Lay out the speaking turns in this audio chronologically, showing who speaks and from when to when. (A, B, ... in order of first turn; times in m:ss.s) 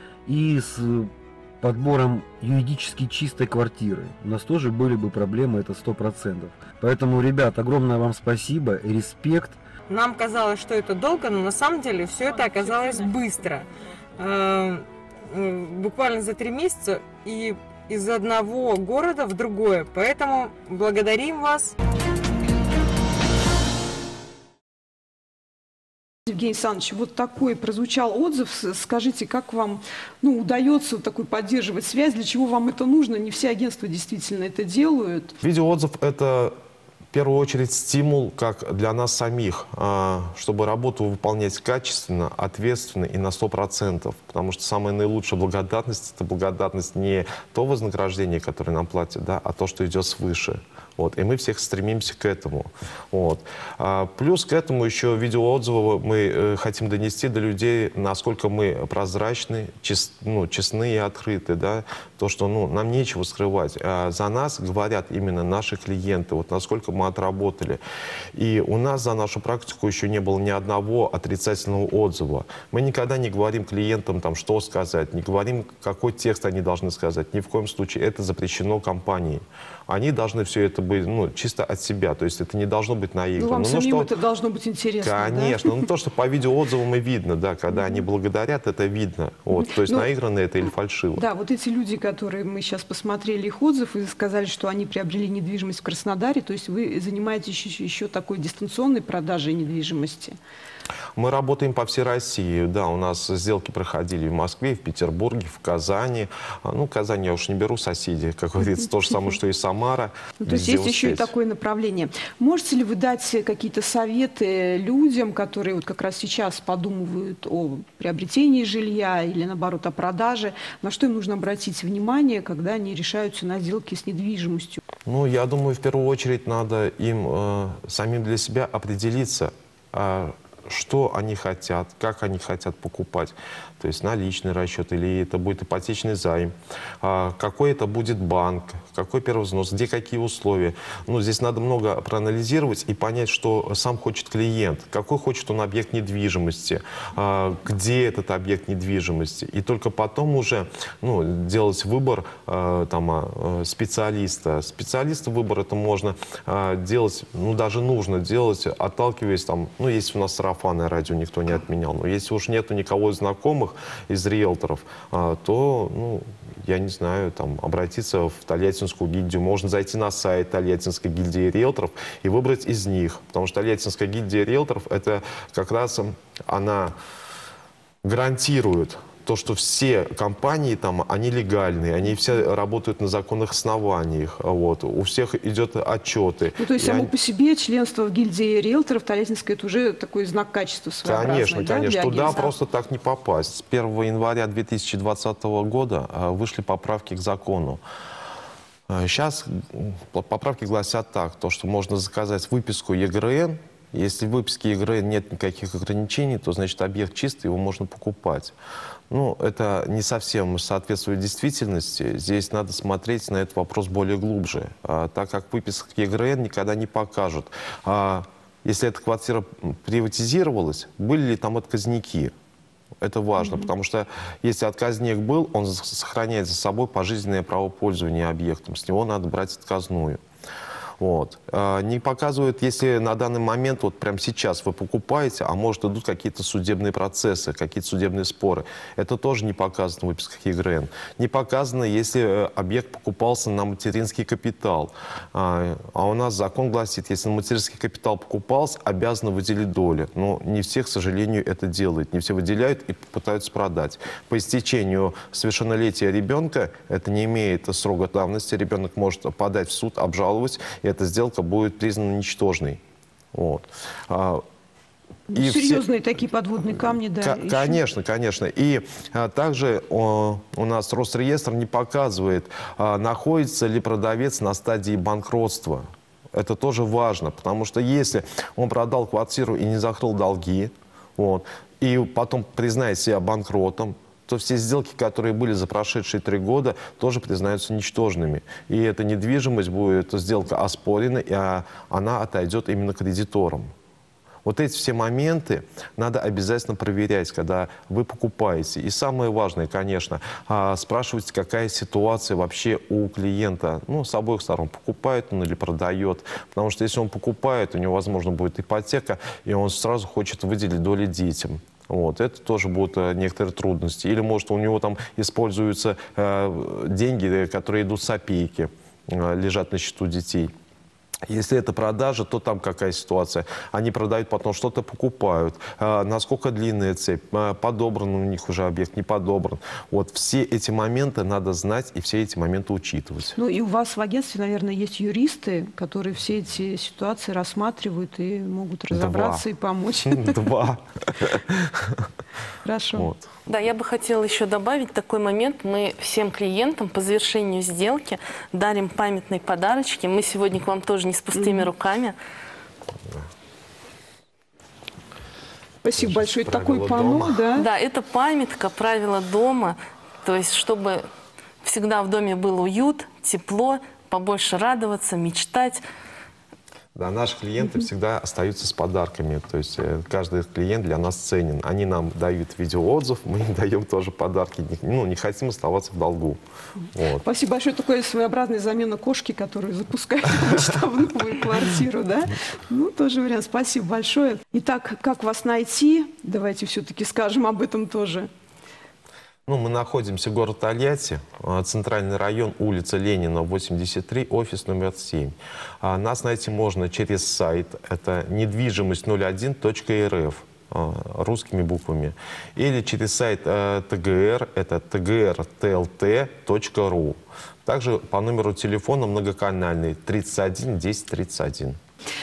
0:00.3-0:09.6 A
0:09.9-0:21.8 B
0:26.3-0:35.3 C
0:35.4-0:36.5 D
0:37.1-1:07.8 D
1:08.3-1:24.1 D
1:23.4-1:25.7 C
1:25.0-1:31.2 D
1:27.7-1:28.0 C
1:29.7-1:30.1 C
1:31.2-1:40.4 C
1:41.2-1:51.3 D
1:50.4-2:04.8 C
2:05.1-2:57.0 D
2:58.0-3:07.1 D
3:06.6-3:12.5 C
3:11.0-3:17.8 D
3:18.9-3:28.5 D
3:29.1-3:42.3 D
3:43.0-3:50.2 D
3:43.4-3:43.7 C
3:51.0-4:22.8 D
4:23.3-4:24.4 D
4:25.3-4:27.8 C
4:25.4-4:25.8 D
4:27.2-4:53.7 D
4:54.4-5:20.5 D
5:21.3-5:33.4 D
5:33.4-5:40.5 C
5:38.9-5:39.4 D
5:40.1-5:42.0 D
5:42.6-5:43.1 C
5:43.0-5:43.3 D
5:43.5-5:52.2 E
5:51.3-5:51.7 C
5:55.8-5:57.7 C
5:56.0-5:57.4 D
5:57.6-6:01.0 E
6:01.6-6:05.8 E
6:07.0-6:16.4 D
6:16.9-6:17.2 D
6:17.2-6:28.3 C
6:29.5-6:51.8 D